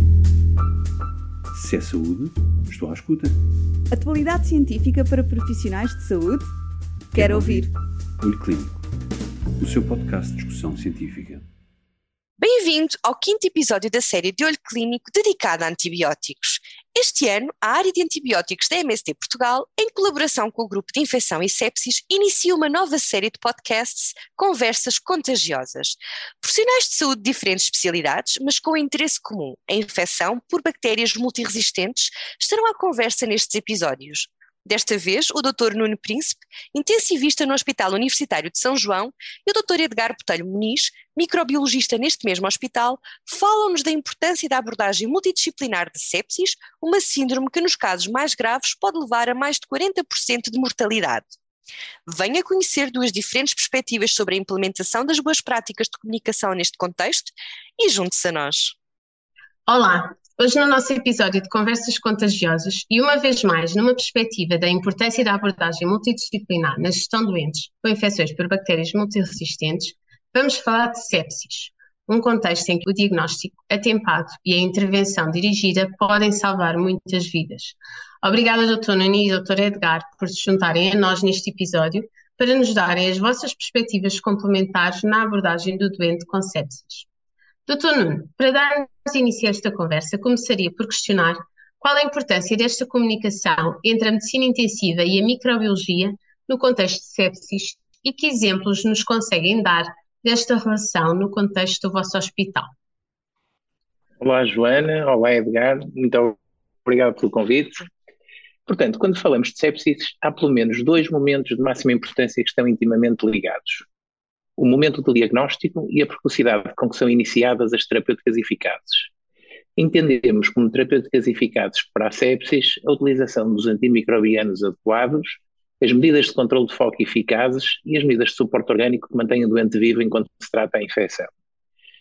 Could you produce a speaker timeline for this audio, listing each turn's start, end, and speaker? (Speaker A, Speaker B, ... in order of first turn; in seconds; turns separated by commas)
Speaker A: 1.5-3.3, Speaker B: 3.9-6.5, Speaker A: 7.1-7.7, Speaker B: 7.1-7.7, Speaker A: 8.2-8.9, Speaker A: 9.6-11.4, Speaker C: 12.4-51.3, Speaker C: 52.0-58.8, Speaker D: 59.7-87.1, Speaker D: 87.7-102.7, Speaker E: 104.2-107.9, Speaker E: 108.7-113.9, Speaker E: 114.6-119.1, Speaker E: 119.8-131.3